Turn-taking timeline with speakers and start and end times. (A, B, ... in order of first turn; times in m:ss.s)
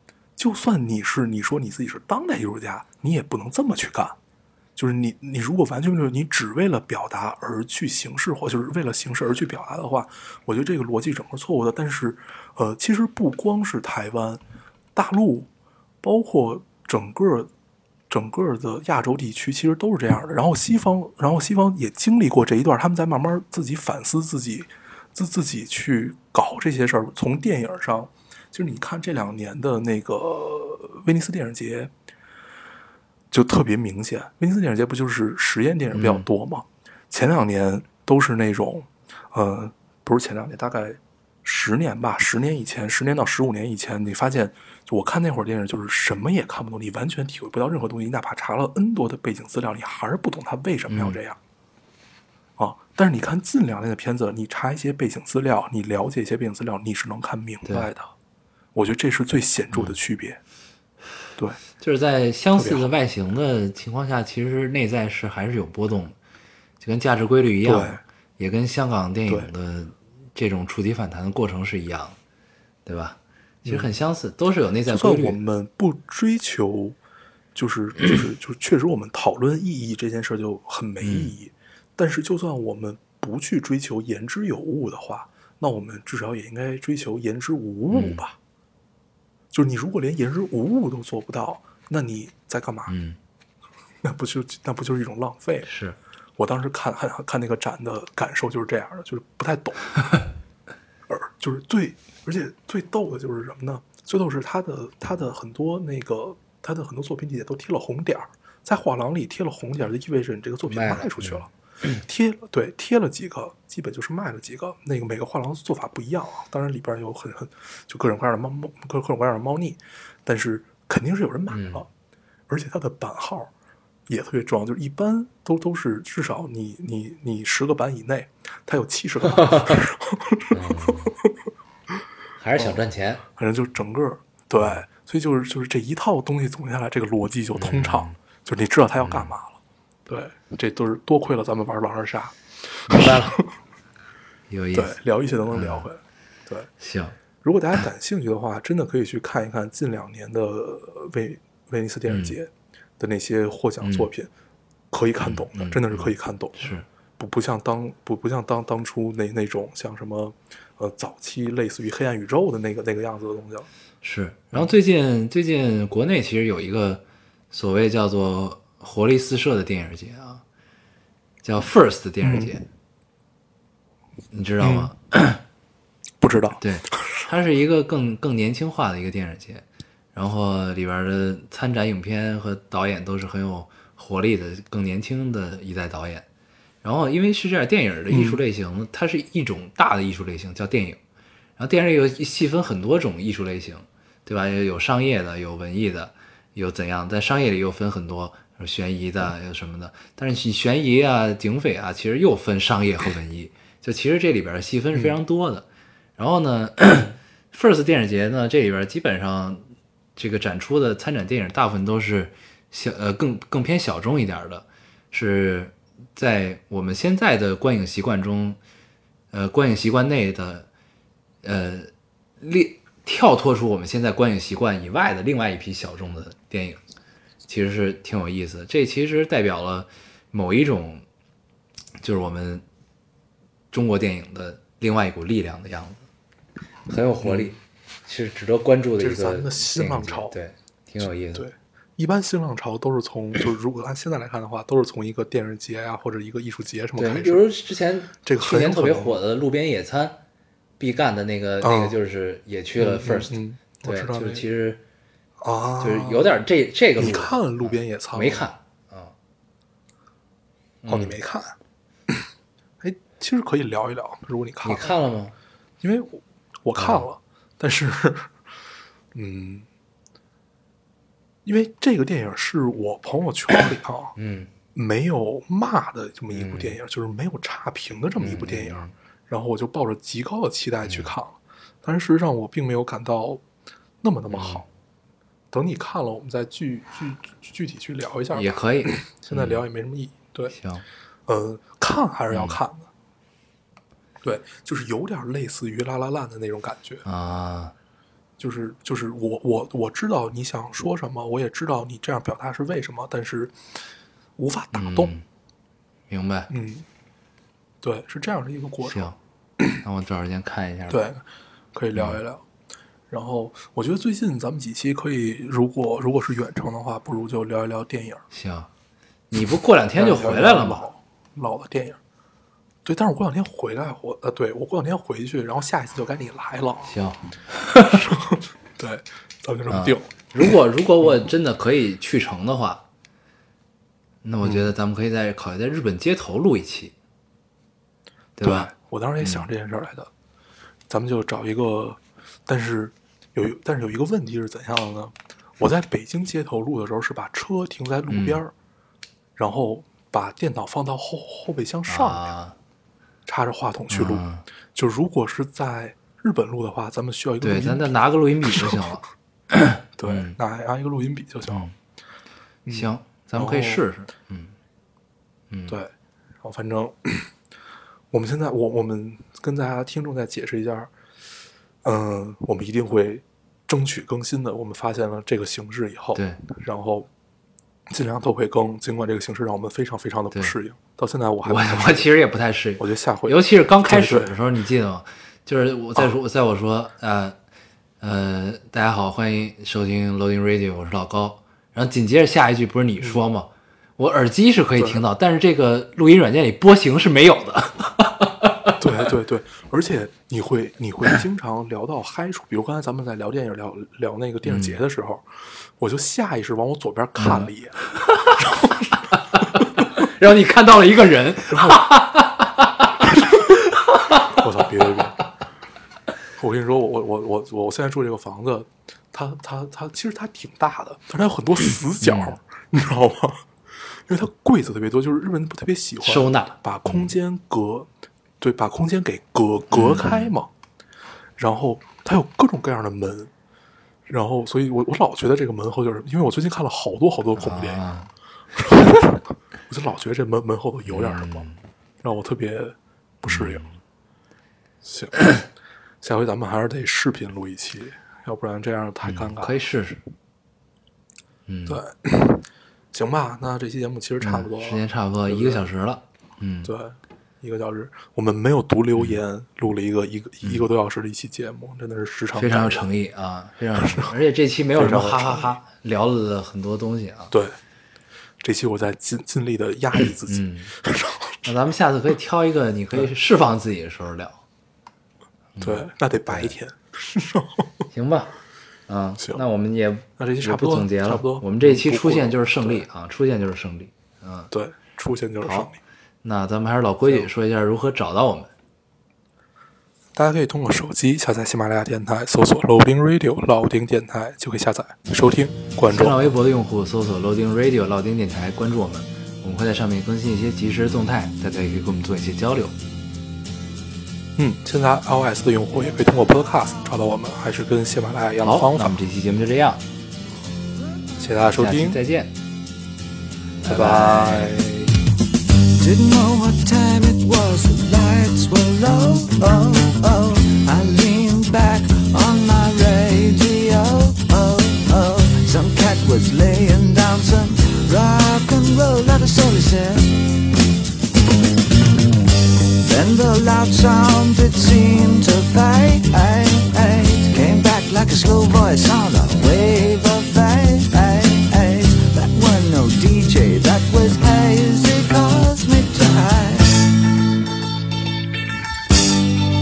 0:00.4-0:04.2 A
0:04.8-0:14.4 A
0:14.9-0:15.5 A
0:16.0-0:17.5 A
0:18.1-0:31.9 A
0:33.3-0:51.4 A
0:35.9-0:36.2 B
0:50.9-0:51.2 B
0:52.6-0:58.1 A
0:58.7-1:00.4 A
1:01.8-1:06.2 B
1:02.5-1:02.9 A
1:06.8-1:12.2 B
1:07.6-1:08.0 A
1:12.8-1:15.4 B
1:13.6-1:13.9 A
1:14.9-1:17.0 A
1:17.5-1:28.4 A
1:21.0-1:21.3 B
1:27.9-1:28.2 B
1:29.5-1:32.9 A
1:32.9-1:33.2 B
1:34.0-1:35.7 A
1:35.6-1:36.0 B
1:36.4-1:39.9 A
1:41.1-2:01.9 A
1:50.7-1:51.4 B
2:01.5-2:01.8 B
2:02.5-2:03.5 A
2:04.1-2:11.3 A
2:09.4-2:09.8 B
2:10.5-2:11.1 B
2:12.4-2:13.2 B
2:13.4-2:23.5 A
2:14.6-2:14.8 B
2:17.6-2:18.2 B
2:19.0-2:19.3 B
2:22.9-2:23.4 B
2:24.5-2:25.0 B
2:24.7-2:26.7 A
2:25.5-2:25.9 B
2:26.8-2:27.2 B
2:27.4-2:34.3 A
2:32.1-2:32.4 B
2:33.8-2:34.1 B
2:34.9-2:43.7 A
2:35.2-2:36.8 B
2:44.0-2:50.4 B
2:51.4-2:52.7 B
2:52.2-2:52.5 A
2:54.3-2:55.4 B
2:54.6-2:54.9 A
2:56.2-2:56.6 A
2:56.6-3:06.2 B
3:06.8-3:11.0 B
3:08.1-3:08.4 A
3:11.6-3:25.6 B
3:26.2-3:29.6 B
3:30.2-3:38.6 B
3:39.3-3:40.7 B
3:41.4-3:41.9 B
3:42.4-3:46.8 B
3:47.5-3:51.0 B
3:52.0-3:52.6 B
3:53.7-3:56.0 B
3:56.9-4:01.5 B
3:57.2-3:57.5 A
3:59.0-4:00.4 A
4:01.3-4:07.5 A
4:07.0-4:10.2 B
4:08.2-4:09.2 A
4:10.8-4:14.8 B
4:11.6-4:12.0 A
4:12.8-4:14.4 A
4:15.4-4:16.3 A
4:15.8-4:19.1 B
4:17.0-4:18.5 A
4:20.8-4:21.2 B
4:20.9-4:21.6 A
4:22.8-4:25.0 A
4:24.6-4:25.3 B
4:25.8-4:28.4 A
4:26.8-4:27.0 B
4:29.1-4:29.6 A
4:31.4-4:34.2 A
4:34.2-4:34.5 B
4:34.7-4:43.4 A
4:36.3-4:36.8 B
4:38.2-4:38.9 B
4:40.8-4:41.1 B
4:44.0-4:44.7 A
4:44.3-4:44.6 B
4:45.5-4:50.6 A
4:48.3-4:49.6 B
4:50.5-4:50.8 B
4:51.3-4:52.9 A
4:52.3-4:52.6 B
4:54.2-4:57.0 A
4:57.0-4:57.7 B
4:58.4-5:03.6 A
5:04.4-5:05.1 A
5:04.7-5:05.2 B
5:06.1-5:06.5 B
5:06.5-5:06.8 A
5:07.8-5:09.1 A
5:08.8-5:09.2 B
5:09.8-5:11.0 B
5:10.9-5:12.4 A
5:13.1-5:18.2 A
5:18.3-5:18.7 B
5:19.3-5:20.9 B
5:19.9-5:22.0 A
5:22.8-5:26.9 A
5:26.8-5:28.1 B
5:27.9-5:30.2 A
5:29.7-5:32.8 B
5:34.2-5:36.9 B
5:34.4-5:34.7 A
5:38.4-5:39.5 B
5:38.4-5:40.1 A
5:40.9-5:48.5 A
5:48.1-5:48.4 B
5:49.4-5:52.2 A
5:51.9-5:52.6 B
5:53.2-5:58.9 A
5:53.9-5:54.4 B
5:57.4-6:00.4 B
6:00.0-6:01.7 A
6:01.5-6:01.7 B
6:02.6-6:03.8 A
6:02.7-6:04.5 B
6:05.5-6:05.8 B
6:05.7-6:07.3 A
6:08.1-6:10.9 A
6:11.8-6:17.1 A
6:16.1-6:16.4 B
6:17.9-6:22.1 A
6:21.4-6:27.4 B
6:22.8-6:24.3 A
6:28.0-6:38.8 B
6:34.8-6:35.0 A
6:38.8-6:45.3 A
6:44.4-6:44.8 B
6:45.8-6:49.0 A
6:47.2-6:54.4 B
6:51.5-6:51.9 A
6:54.3-6:55.2 A
6:56.4-7:03.5 A
7:02.0-7:02.3 B
7:04.1-7:07.9 A
7:06.0-7:07.1 B
7:08.4-7:10.5 A
7:09.7-7:10.3 B
7:11.4-7:13.3 A
7:14.0-7:17.8 A
7:17.3-7:18.1 B
7:18.6-7:21.5 A
7:20.9-7:21.6 B
7:22.0-7:23.6 A
7:23.3-7:23.8 B
7:24.8-7:25.3 A
7:26.0-7:29.6 A
7:29.0-7:30.0 B
7:31.4-7:31.8 B
7:31.6-7:35.6 A
7:34.2-7:36.7 B
7:36.6-7:42.9 A
7:42.3-7:47.3 B
7:43.8-7:44.1 A
7:44.7-7:45.6 A
7:47.3-7:47.6 A
7:48.4-7:51.4 A
7:50.2-7:50.7 B
7:51.4-7:54.4 B
7:55.6-7:56.5 B
7:55.6-7:57.8 A
7:57.9-7:58.3 B
7:58.9-8:04.5 B
8:00.2-8:02.8 A
8:04.5-8:05.8 A
8:05.4-8:05.7 B
8:06.2-8:08.5 B
8:10.2-8:16.2 A
8:15.9-8:22.8 B
8:24.4-8:29.0 A
8:28.4-8:29.8 B
8:31.2-8:32.0 A
8:31.6-8:32.3 B
8:33.6-8:34.6 B
8:33.6-8:35.0 A
8:35.8-8:50.2 C
8:52.8-9:06.9 C